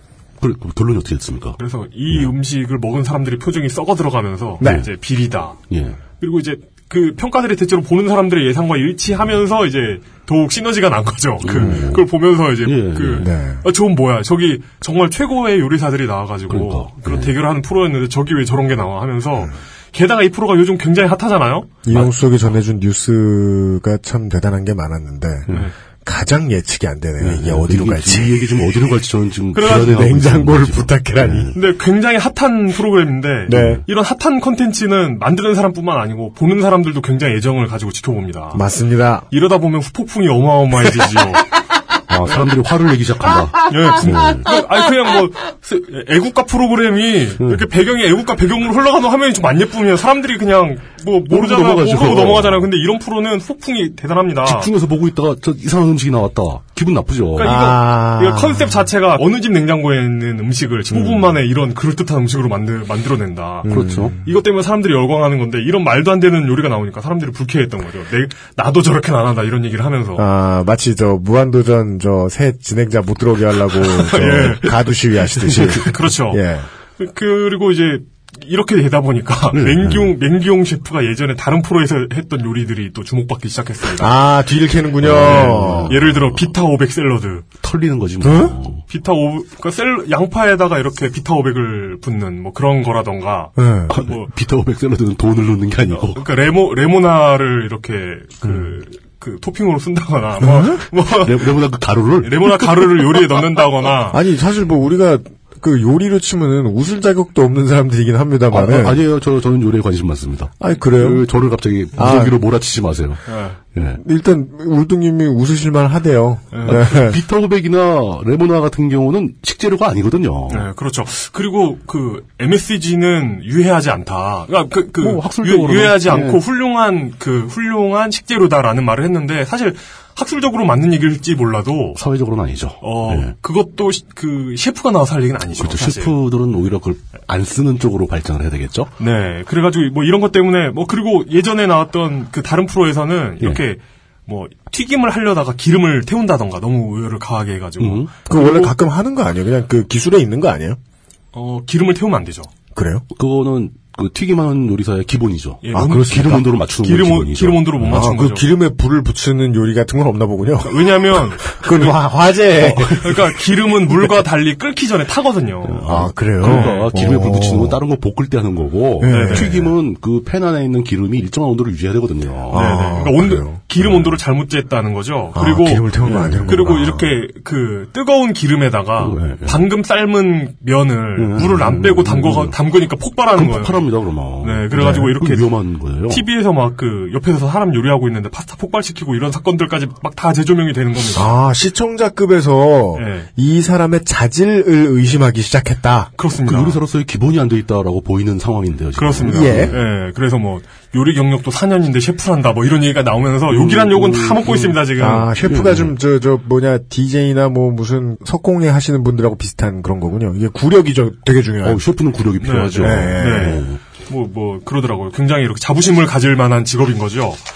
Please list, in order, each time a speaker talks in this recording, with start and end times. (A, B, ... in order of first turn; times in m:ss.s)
0:00.4-0:01.6 A
0:01.6-0:05.6 B
0:04.6-0:04.9 C
0:05.7-0:06.0 A
0:06.2-0:21.8 B
0:11.4-0:12.1 A
0:11.5-0:11.9 C
0:12.6-0:13.3 A
0:13.2-0:13.6 C
0:16.5-0:17.3 A
0:21.8-0:25.5 C
0:26.0-0:28.6 C
0:27.2-0:31.6 A
0:29.5-0:30.1 B
0:29.6-0:31.5 C
0:31.6-0:38.6 B
0:33.5-0:33.8 C
0:33.5-0:33.8 A
0:38.5-0:39.3 C
0:39.3-0:41.5 B
0:42.1-0:44.5 A
0:43.7-0:54.7 B
0:51.3-0:52.7 A
0:54.5-0:57.6 A
0:57.4-1:10.3 B
0:57.4-0:58.8 C
1:00.9-1:01.3 C
1:03.6-1:04.3 C
1:03.7-1:04.2 A
1:10.2-1:16.7 C
1:13.8-1:14.8 B
1:15.4-1:15.9 A
1:15.6-1:16.4 B
1:17.0-1:24.2 B
1:19.5-1:20.1 A
1:24.0-1:26.0 C
1:25.0-1:26.4 A
1:25.0-1:27.5 B
1:27.6-1:28.8 A
1:28.2-1:28.6 C
1:28.9-1:34.3 B
1:33.6-1:34.0 C
1:33.9-1:36.2 A
1:36.1-1:41.6 B
1:40.4-1:40.8 C
1:41.2-1:43.4 A
1:42.2-1:44.2 B
1:44.1-1:49.0 C
1:48.5-1:53.2 A
1:50.6-1:51.3 C
1:51.9-1:52.4 C
1:53.3-1:53.6 B
1:53.7-1:54.0 A
1:54.0-1:57.2 C
1:56.5-1:56.9 B
1:56.7-2:00.6 A
2:00.5-2:12.0 B
2:05.0-2:06.4 A
2:12.0-2:13.3 A
2:12.8-2:16.2 B
2:15.6-2:18.9 A
2:19.0-2:28.7 B
2:27.8-2:28.1 A
2:28.3-2:30.8 C
2:31.3-2:32.5 B
2:32.8-2:33.0 C
2:33.2-2:38.1 A
2:35.6-2:38.5 B
2:35.7-2:36.5 C
2:37.9-2:43.2 C
2:40.6-2:41.9 B
2:42.6-2:43.3 A
2:43.0-2:47.2 B
2:45.6-2:52.9 A
2:45.9-2:47.8 C
2:49.0-2:49.7 C
2:49.1-2:49.7 B
2:52.5-3:03.9 B
2:52.5-2:53.9 C
2:55.4-2:57.1 C
2:56.0-2:56.9 A
2:59.0-2:59.7 A
3:01.2-3:02.6 A
3:03.3-3:06.2 A
3:04.4-3:11.3 B
3:04.8-3:05.0 C
3:11.1-3:16.1 C
3:12.9-3:13.3 B
3:16.2-3:16.8 B
3:16.4-3:19.8 A
3:19.0-3:25.3 B
3:19.3-3:19.8 C
3:23.5-3:25.9 A
3:25.0-3:31.8 C
3:31.6-3:33.8 A
3:32.4-3:37.4 B
3:32.8-3:33.6 C